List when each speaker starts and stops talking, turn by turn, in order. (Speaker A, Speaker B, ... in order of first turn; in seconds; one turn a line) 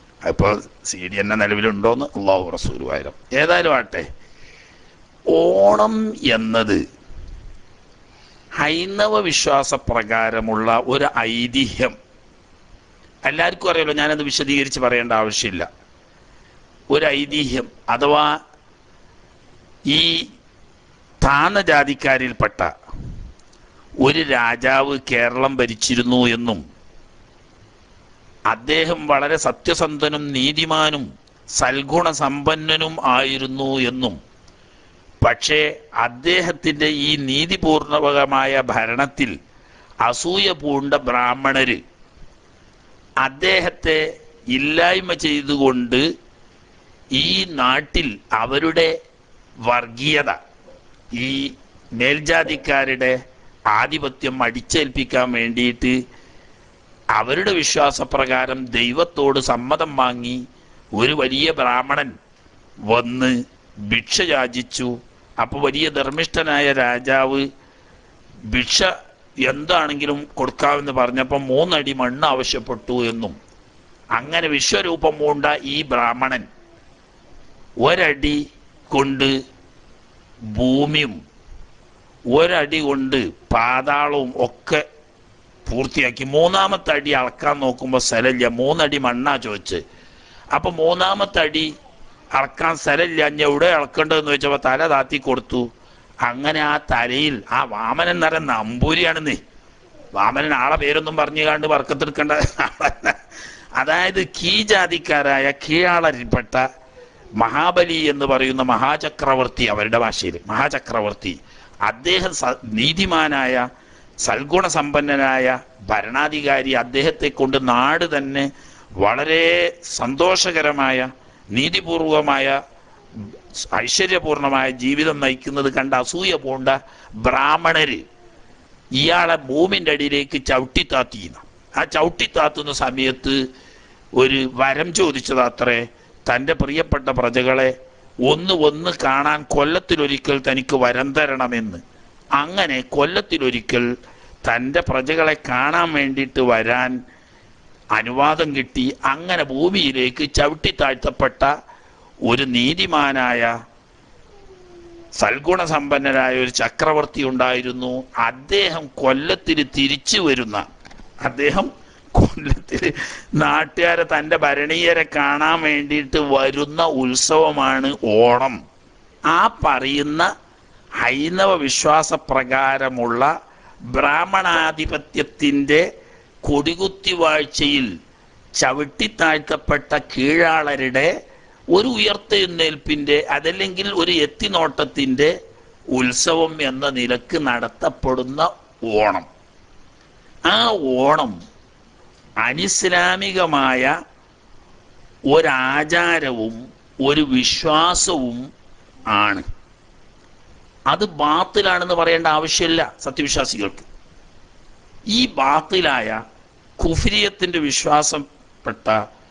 Speaker A: 0.2-4.1
Speaker A: 5.3-6.8
Speaker A: 8.6-12.0
Speaker A: 13.3-15.7
Speaker A: 16.9-18.3
Speaker A: 19.9-20.3
Speaker A: 21.2-22.7
Speaker A: 24.0-26.6
Speaker A: 28.5-34.2
Speaker A: 35.2-39.4
Speaker A: 40.0-41.8
Speaker A: 43.2-44.0
Speaker A: 44.5-46.0
Speaker A: 47.1-48.9
Speaker A: 49.7-50.4
Speaker A: 51.2-53.2
Speaker A: 53.7-56.0
Speaker A: 57.2-60.4
Speaker A: 61.0-62.1
Speaker A: 62.9-67.5
Speaker A: 68.5-68.9
Speaker A: 69.4-73.4
Speaker A: 74.2-76.5
Speaker A: 77.8-78.4
Speaker A: 78.9-79.3
Speaker A: 80.5-81.2
Speaker A: 82.3-84.8
Speaker A: 85.7-89.8
Speaker A: 90.5-91.7
Speaker A: 92.4-95.7
Speaker A: 96.2-99.4
Speaker A: 100.2-103.2
Speaker A: 103.8-106.6
Speaker A: 107.4-113.7
Speaker A: 114.2-118.5
Speaker A: 119.0-122.6
Speaker A: 123.2-128.0
Speaker A: 129.0-133.4
Speaker A: 134.2-141.8
Speaker A: 142.4-143.9
Speaker A: 144.5-146.9
Speaker A: 147.9-151.5
Speaker A: 152.3-153.5
Speaker A: 155.2-160.7
Speaker A: 161.2-168.6
Speaker A: 169.3-170.3
Speaker A: 171.0-173.3
Speaker A: 173.9-175.8
Speaker A: 176.5-177.9
Speaker A: 178.6-181.1
Speaker A: 181.7-185.3
Speaker A: 185.9-189.3
Speaker A: 190.5-191.4
Speaker A: 192.4-193.9
Speaker A: 195.3-198.4
Speaker A: 199.1-199.4
Speaker A: 200.9-203.9
Speaker A: 205.1-206.2
Speaker A: 206.8-209.0